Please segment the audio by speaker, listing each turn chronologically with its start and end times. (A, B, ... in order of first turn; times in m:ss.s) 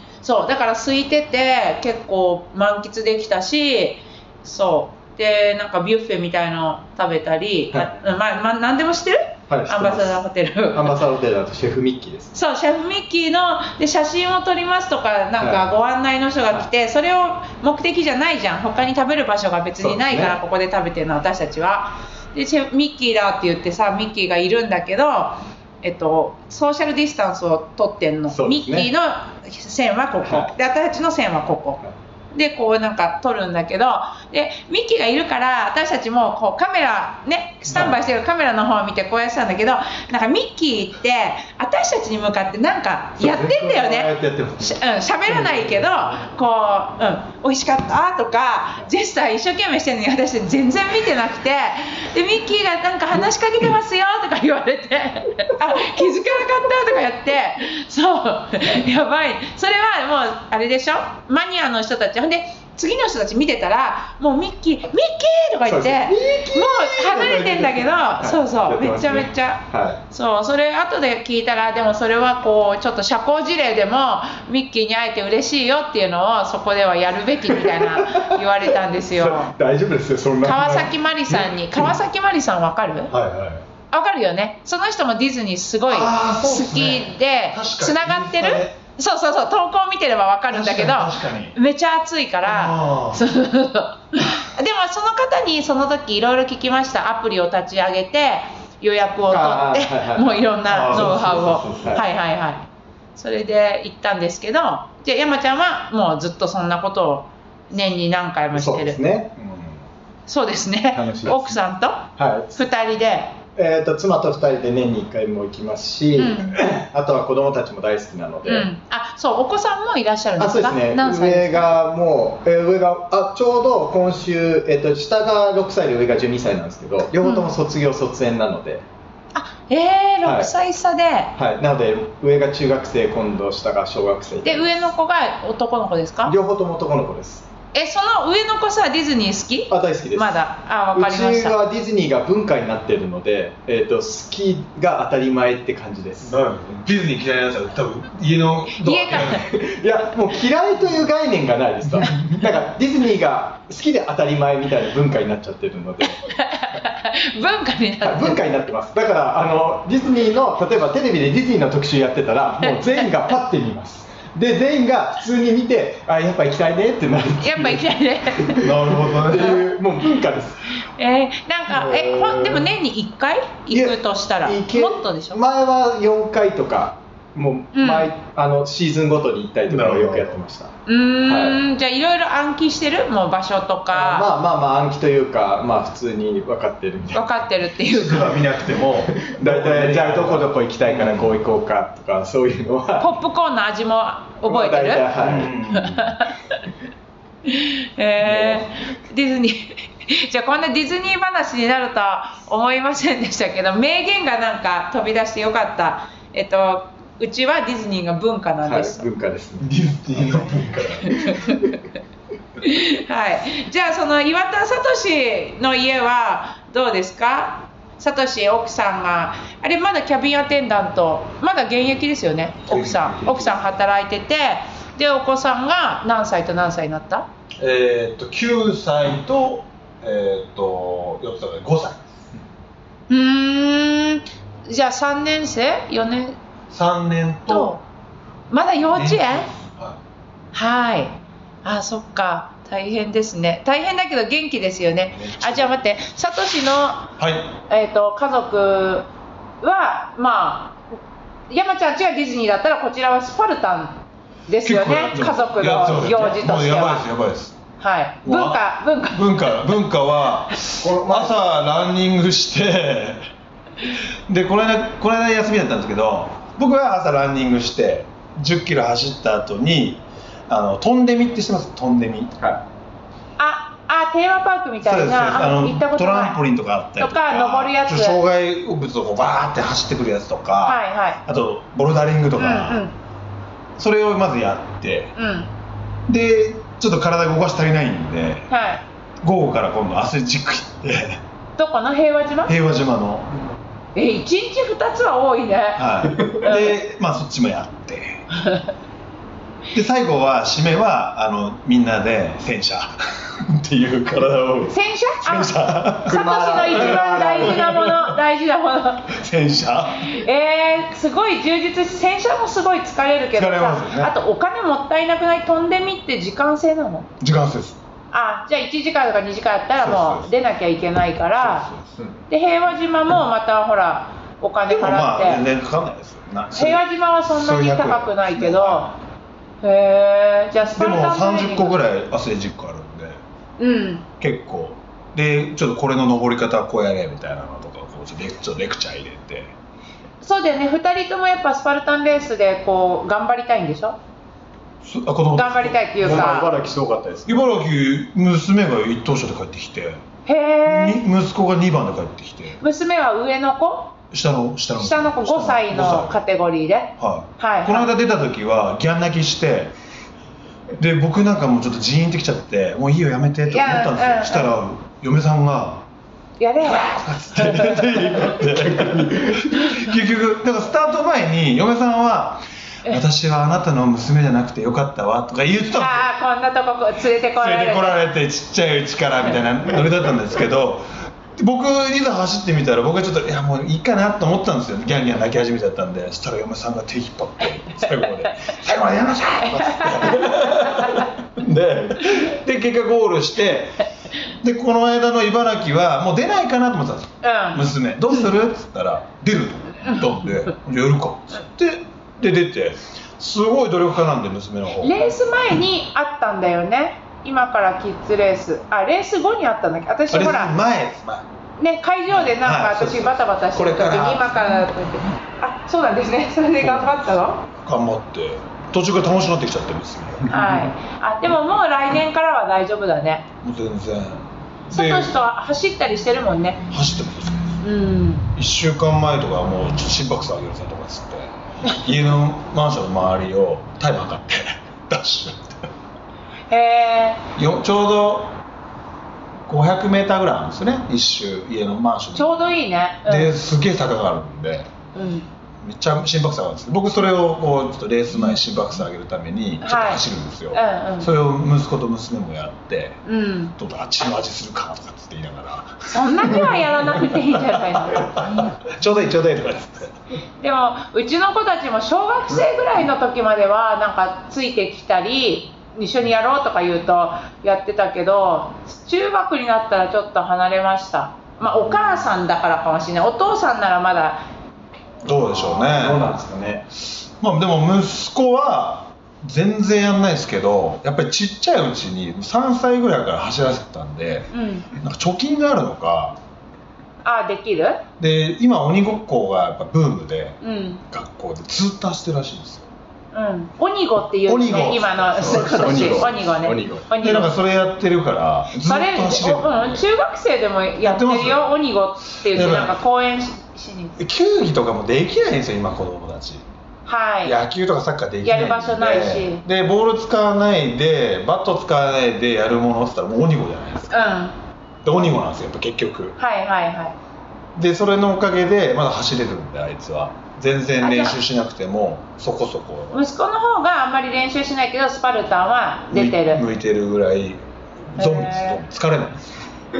0:00.2-0:10.9 A
0:09.5-0:10.2 B
0:10.7-0:12.3 B
0:12.3-0:31.8 A
0:15.4-0:15.6 B
0:19.8-0:20.4 B
0:28.3-0:28.9 B
0:30.2-0:30.5 B
0:32.3-1:19.5 A
0:37.7-0:38.0 B
0:43.2-0:46.1 B
1:05.6-1:10.0 B
1:17.5-1:21.9 B
1:20.4-1:23.1 A
1:23.1-1:23.6 C
1:23.9-1:42.6 A
1:25.9-1:28.7 C
1:30.5-1:31.5 C
1:32.4-1:33.2 C
1:39.3-1:40.4 B
1:40.7-1:42.0 C
1:40.9-1:42.0 B
1:43.2-1:49.0 A
1:48.5-1:49.3 B
1:49.4-1:49.8 C
1:50.3-1:53.3 A
1:50.9-1:51.5 B
1:52.2-1:52.6 B
1:53.6-1:58.7 B
1:56.2-1:56.6 A
1:58.5-2:01.7 A
2:00.4-2:08.8 B
2:07.2-2:07.5 A
2:09.3-2:11.3 A
2:10.2-2:10.5 B
2:11.4-2:14.9 B
2:14.4-2:16.3 A
2:16.2-2:17.4 B
2:17.7-2:21.6 A
2:19.7-2:20.4 B
2:20.9-2:26.3 B
2:26.2-2:29.4 C
2:28.8-2:29.4 A
2:29.2-2:36.2 B
2:32.0-2:32.3 C
2:36.2-2:38.4 A
2:38.0-2:50.6 B
2:42.6-2:43.0 A
2:47.4-2:48.6 A
2:48.5-2:49.7 C
2:51.0-2:55.4 A
2:51.7-2:52.6 C
2:53.7-3:00.7 B
2:57.7-2:58.1 A
2:59.7-3:00.4 C
3:00.8-3:04.3 A
3:01.2-3:01.6 B
3:03.9-3:07.5 B
3:07.1-3:08.3 A
3:07.8-3:11.3 C
3:09.2-3:13.1 B
3:13.0-3:15.1 A
3:14.4-3:15.5 B
3:15.2-3:16.2 C
3:15.7-3:16.3 A
3:17.4-3:29.0 A
3:18.2-3:18.6 B
3:28.6-3:31.7 B
3:29.6-3:31.2 C
3:31.0-3:31.8 A
3:32.6-3:47.3 A
3:42.7-3:43.6 C
3:47.6-3:52.2 C
3:53.1-3:56.4 A
3:56.7-3:57.8 C
3:57.5-3:57.8 A
3:58.5-3:59.5 A
3:58.9-4:00.0 C
4:00.5-4:07.1 A
4:05.1-4:05.7 C
4:07.2-4:07.5 C
4:07.7-4:09.1 A
4:09.6-4:11.0 A
4:11.5-4:17.0 A
4:14.6-4:17.6 C
4:17.8-4:19.7 A
4:18.2-4:23.3 C
4:20.8-4:21.5 B
4:23.9-4:32.3 C
4:33.4-4:36.4 A
4:34.8-4:42.9 C
4:37.0-4:38.2 A
4:40.6-4:41.2 A
4:42.4-4:42.9 A
4:43.8-4:45.1 C
4:45.2-4:45.5 A
4:46.1-4:48.5 C
4:48.5-4:48.8 A
4:49.2-4:51.2 C
4:51.6-4:52.5 A
4:52.5-4:53.4 C
4:53.9-4:56.8 A
4:55.8-4:58.2 C
4:58.3-4:58.7 A
4:59.7-5:08.1 C
5:04.7-5:09.1 A
5:06.1-5:07.7 B
5:09.1-5:10.2 C
5:10.0-5:17.1 A
5:13.3-5:14.1 C
5:17.2-5:17.8 C
5:18.1-5:21.7 A
5:19.8-5:20.3 C
5:21.4-5:22.2 C
5:22.3-5:25.4 A
5:24.7-5:28.9 C
5:26.5-5:28.9 A
5:29.6-5:31.8 A
5:30.8-5:33.2 C
5:33.6-5:34.0 A
5:34.2-5:39.5 C
5:40.2-5:44.0 A
5:44.8-5:46.3 C
5:45.3-5:46.5 A
5:46.0-5:47.5 B
5:47.2-5:50.0 C
5:50.2-5:51.0 A
5:50.6-5:52.6 C
5:52.6-5:54.0 A
5:54.1-5:56.2 C
5:54.8-5:57.9 A
5:57.0-5:59.7 C
6:00.8-6:05.8 C
6:03.5-6:04.5 A
6:06.4-6:07.8 A
6:06.6-6:16.1 C
6:07.9-6:09.5 B
6:09.5-6:09.9 A
6:15.8-6:18.0 A
6:17.4-6:33.9 C
6:29.5-6:31.1 A
6:34.4-6:45.0 C
6:37.2-6:37.6 A
6:39.8-6:40.1 A
6:44.8-6:50.5 A
6:50.1-6:51.2 C
6:51.6-6:57.4 A
6:52.1-6:54.6 C
6:56.6-7:00.4 C
7:00.3-7:03.2 A
7:03.4-7:05.2 C
7:04.7-7:06.6 A
7:06.7-7:07.6 C
7:07.6-7:08.2 A
7:08.3-7:15.7 C
7:16.5-7:17.2 A
7:17.4-7:18.4 C
7:19.5-7:24.7 C
7:22.1-7:23.3 A
7:24.9-7:25.2 A
7:25.6-7:33.0 C
7:29.6-7:31.1 A
7:33.0-7:33.5 A
7:33.6-7:40.0 C
7:35.9-7:38.3 A
7:40.4-7:54.2 A
7:55.0-7:56.1 C
7:55.2-7:56.6 B
7:57.2-8:06.2 C
8:04.3-8:04.7 A
8:07.0-8:07.8 A
8:08.0-8:12.6 C
8:10.4-8:10.8 A
8:13.1-8:17.3 A
8:14.3-8:16.1 C
8:15.2-8:16.9 B
8:17.0-8:19.8 C
8:18.6-8:24.0 A
8:20.8-8:21.5 C
8:22.2-8:22.7 C
8:24.0-8:26.4 C
8:26.8-8:27.3 A
8:27.2-8:34.0 C
8:28.2-8:29.4 A
8:33.9-8:34.3 A
8:34.8-8:36.2 C
8:36.2-8:36.9 A
8:37.6-8:43.0 C
8:40.8-8:41.2 A
8:42.9-8:46.4 A
8:45.9-8:47.4 C
8:47.9-8:49.3 C
8:48.0-8:48.6 A